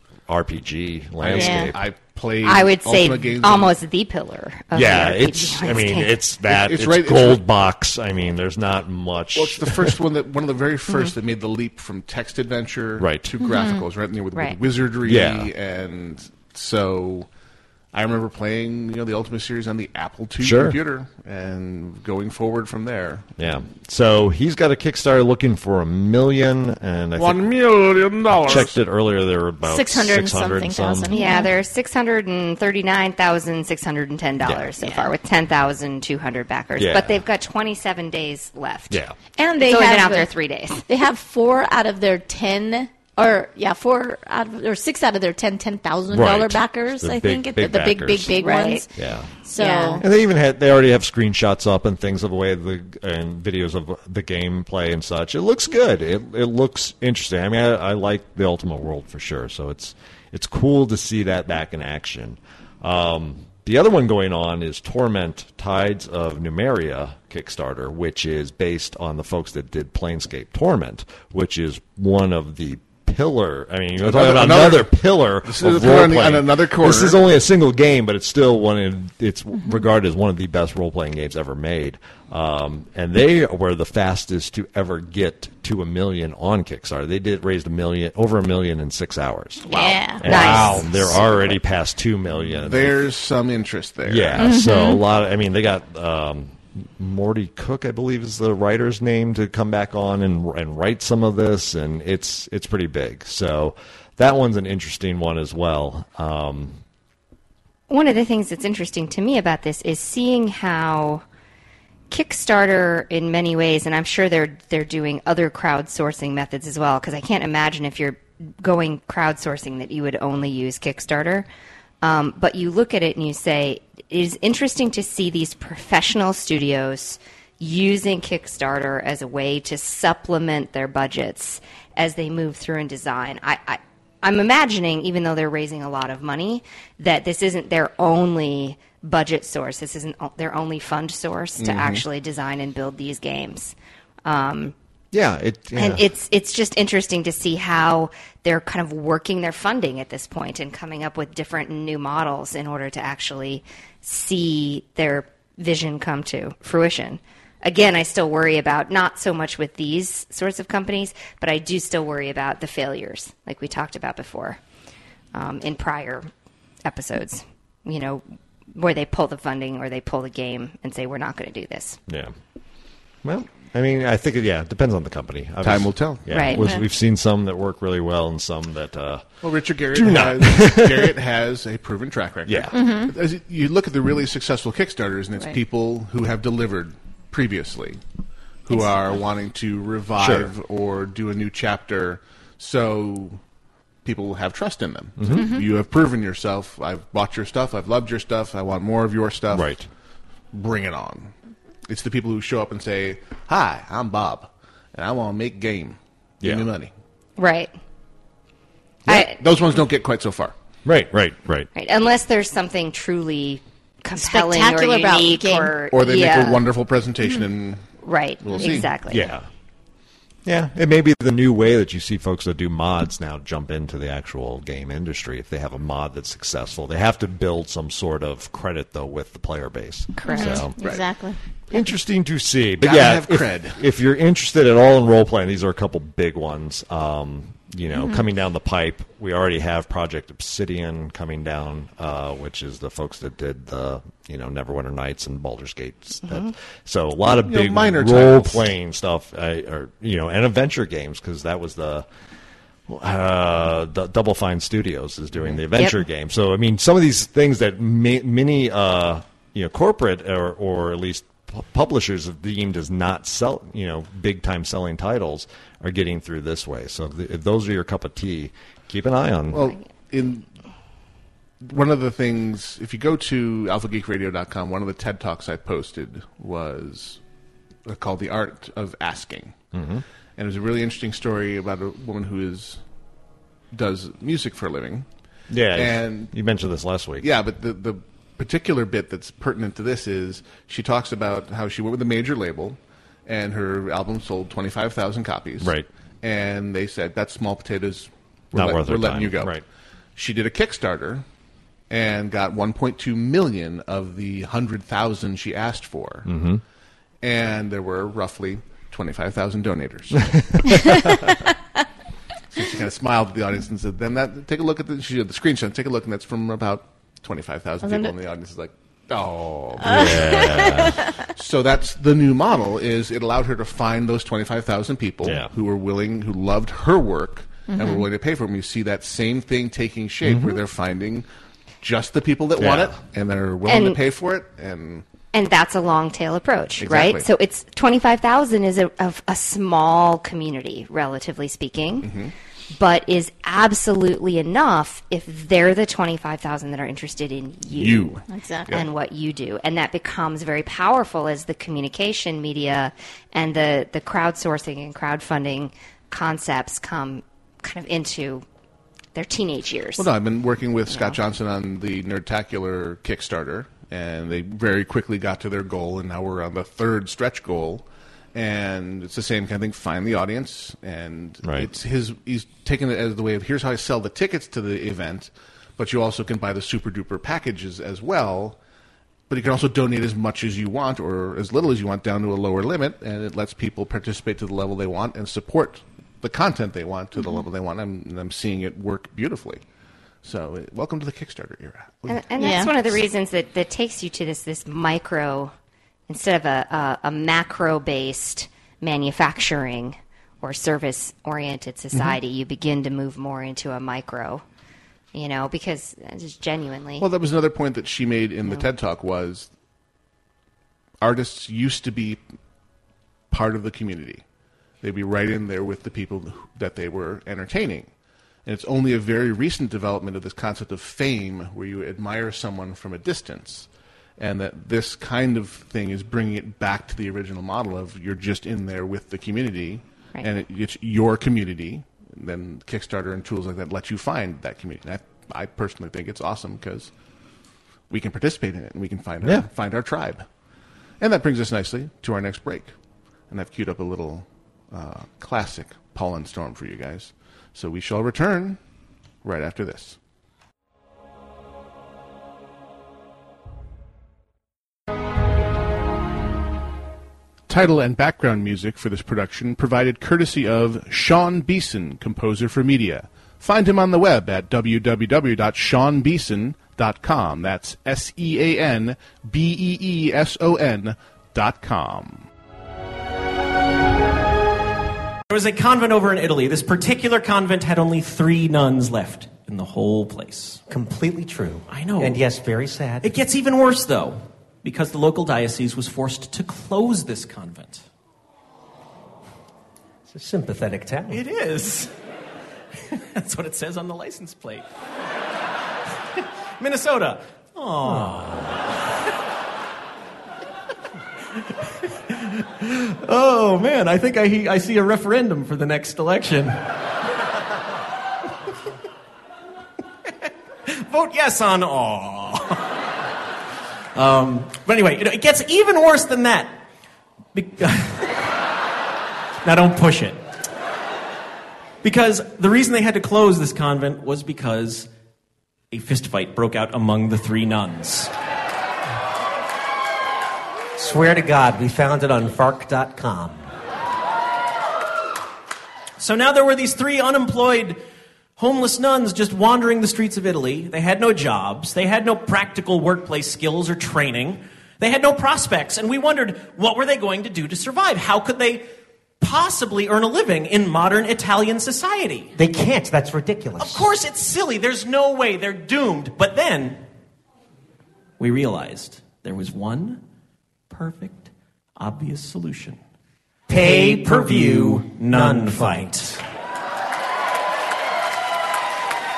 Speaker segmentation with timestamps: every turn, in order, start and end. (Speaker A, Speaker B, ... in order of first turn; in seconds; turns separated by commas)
Speaker A: 0.3-1.8, Speaker B: 1.2-3.7, Speaker C: 1.3-1.7, Speaker D: 2.4-6.2, Speaker A: 4.7-10.0, Speaker B: 6.5-7.5, Speaker B: 9.3-17.3, Speaker A: 13.0-13.3, Speaker C: 13.4-13.8, Speaker A: 15.0-15.5, Speaker B: 17.9-23.3, Speaker A: 20.4-20.8, Speaker A: 23.4-27.7, Speaker B: 27.2-28.8, Speaker A: 28.3-31.1, Speaker C: 29.6-31.5, Speaker D: 31.1-39.0, Speaker A: 34.4-34.7, Speaker C: 34.8-35.1, Speaker A: 36.8-37.2, Speaker C: 39.4-40.3, Speaker D: 39.6-40.8, Speaker C: 40.9-48.9, Speaker A: 46.1-48.4, Speaker D: 48.4-48.8, Speaker A: 48.9-49.3, Speaker C: 49.5-50.0, Speaker D: 49.6-50.0, Speaker A: 50.0-89.6, Speaker B: 74.0-77.3, Speaker C: 89.7-90.2, Speaker B: 89.7-91.5, Speaker A: 90.2-93.0, Speaker D: 90.2-90.9, Speaker B: 92.4-94.5, Speaker A: 94.0-106.8, Speaker C: 94.4-95.0, Speaker D: 107.9-111.2, Speaker D: 112.1-121.5, Speaker D: 122.0-144.7, Speaker B: 141.6-142.0, Speaker A: 145.1-146.0, Speaker D: 145.8-164.6, Speaker D: 165.3-166.3, Speaker D: 166.8-172.0, Speaker A: 173.2-179.2, Speaker B: 175.6-176.5, Speaker D: 176.3-176.7, Speaker B: 179.4-188.0, Speaker A: 179.9-181.1, Speaker A: 182.4-182.9, Speaker C: 182.7-183.1, Speaker B: 188.7-193.4, Speaker A: 190.2-190.5, Speaker B: 194.0-199.7, Speaker A: 195.2-195.5, Speaker A: 199.5-199.9, Speaker B: 200.5-201.3, Speaker B: 201.9-206.9, Speaker A: 206.4-206.7, Speaker D: 207.4-207.7, Speaker D: 209.1-209.4, Speaker B: 209.1-210.5, Speaker A: 210.8-211.7, Speaker D: 211.7-216.6, Speaker C: 214.2-215.7, Speaker B: 215.9-217.8, Speaker D: 218.0-219.3, Speaker B: 218.4-218.9, Speaker A: 219.1-219.4, Speaker A: 220.4-230.8, Speaker D: 230.2-230.6, Speaker C: 230.2-231.4, Speaker A: 231.7-252.1, Speaker B: 232.8-233.8, Speaker B: 247.2-248.7, Speaker A: 252.9-269.7, Speaker D: 255.7-256.0, Speaker B: 269.5-270.5, Speaker B: 271.6-277.2, Speaker B: 277.8-279.6, Speaker A: 279.7-280.0, Speaker B: 280.4-282.8, Speaker B: 283.7-285.1, Speaker A: 285.5-287.3, Speaker B: 285.7-286.3, Speaker B: 287.2-299.6, Speaker A: 295.6-295.9, Speaker A: 298.5-299.6, Speaker B: 300.1-301.2, Speaker B: 301.9-306.3, Speaker A: 306.2-306.6, Speaker B: 307.2-311.2, Speaker A: 310.3-310.9, Speaker B: 312.6-331.2, Speaker C: 317.8-318.1, Speaker A: 319.8-321.1, Speaker C: 319.8-321.1, Speaker A: 325.2-325.5, Speaker C: 327.7-328.0, Speaker A: 330.2-330.6, Speaker B: 331.8-335.0, Speaker A: 332.6-333.0, Speaker D: 333.6-334.0, Speaker D: 335.3-342.1, Speaker B: 336.8-337.3, Speaker B: 342.0-342.3, Speaker D: 342.7-358.4, Speaker B: 347.7-348.9, Speaker C: 348.3-348.7, Speaker D: 359.1-360.1, Speaker B: 360.0-378.6, Speaker D: 360.9-361.2, Speaker A: 371.4-371.7, Speaker B: 379.3-389.6, Speaker B: 390.2-392.2, Speaker D: 392.1-395.5, Speaker C: 392.4-392.7, Speaker D: 396.1-404.4, Speaker D: 405.1-407.1, Speaker B: 407.0-409.5, Speaker B: 411.0-412.2, Speaker B: 413.3-414.2, Speaker B: 414.8-417.9, Speaker B: 418.4-436.9, Speaker B: 437.9-440.2, Speaker B: 441.0-442.7, Speaker B: 443.3-448.6, Speaker B: 449.2-450.0, Speaker B: 457.5-472.3, Speaker E: 475.3-480.6, Speaker F: 480.7-483.1, Speaker E: 481.7-482.2, Speaker E: 483.0-487.8, Speaker F: 490.1-491.2, Speaker E: 491.1-491.9, Speaker E: 492.9-494.6, Speaker E: 496.6-498.5, Speaker E: 502.1-506.6, Speaker E: 510.7-512.6, Speaker E: 513.9-516.6, Speaker E: 517.3-518.1, Speaker E: 519.4-520.2, Speaker E: 521.8-524.9, Speaker E: 525.7-528.1, Speaker F: 530.8-533.5, Speaker E: 536.0-537.8, Speaker E: 538.4-548.7, Speaker E: 549.2-552.3, Speaker F: 552.4-553.9, Speaker E: 553.6-556.8, Speaker E: 558.2-560.0, Speaker E: 560.7-562.8, Speaker F: 563.5-566.0, Speaker E: 563.6-566.1